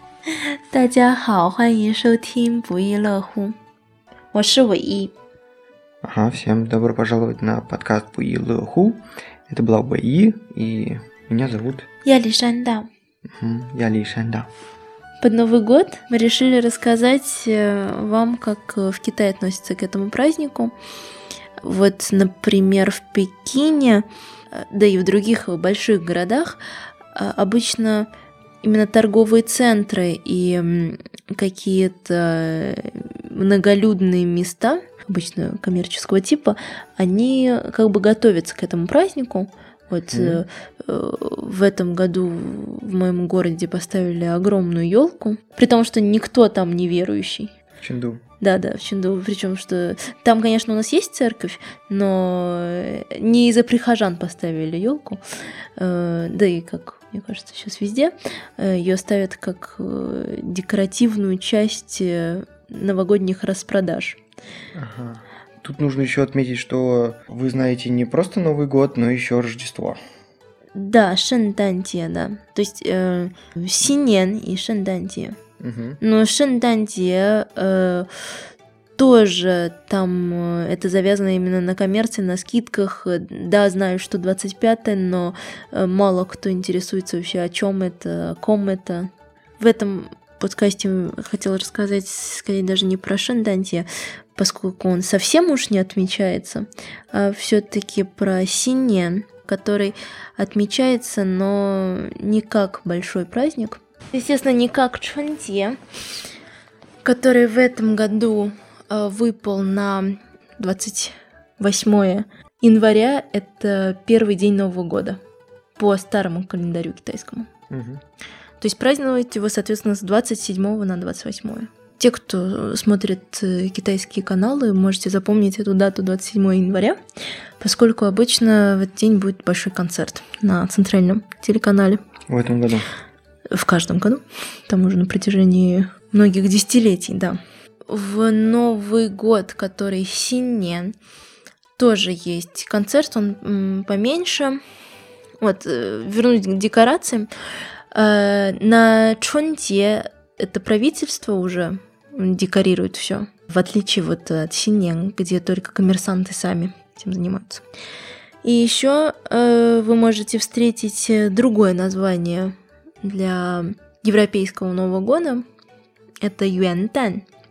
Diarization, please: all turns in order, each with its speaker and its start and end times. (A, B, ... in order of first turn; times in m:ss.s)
0:00.3-0:03.5 A
0:04.3-0:05.1 A
0:06.0-0:11.9 B
0:12.0-0:12.9 A
0:13.3-0:14.5 B
0:15.2-0:20.7 A
0:21.6-0:26.6 A
0:27.1-0:28.1 A
0:28.6-0:47.5 A
0:40.1-0:40.4 B
0:47.8-0:48.2 B
0:48.4-0:55.2 A
0:55.8-1:04.2 A
1:04.7-1:10.0 B
1:10.7-1:15.4 A
1:15.6-1:16.0 B
1:16.0-1:18.1 A
1:19.0-1:45.8 A
1:47.0-1:55.2 A
1:55.8-1:57.5 A
1:57.7-1:58.0 B
1:58.6-2:07.0 A
2:07.6-2:12.0 A
2:12.3-2:12.9 B
2:13.5-2:20.9 A
2:21.8-2:24.6 A
2:25.4-2:27.3 A
2:27.9-2:37.6 A
2:38.4-2:45.4 A
2:46.2-2:47.2 A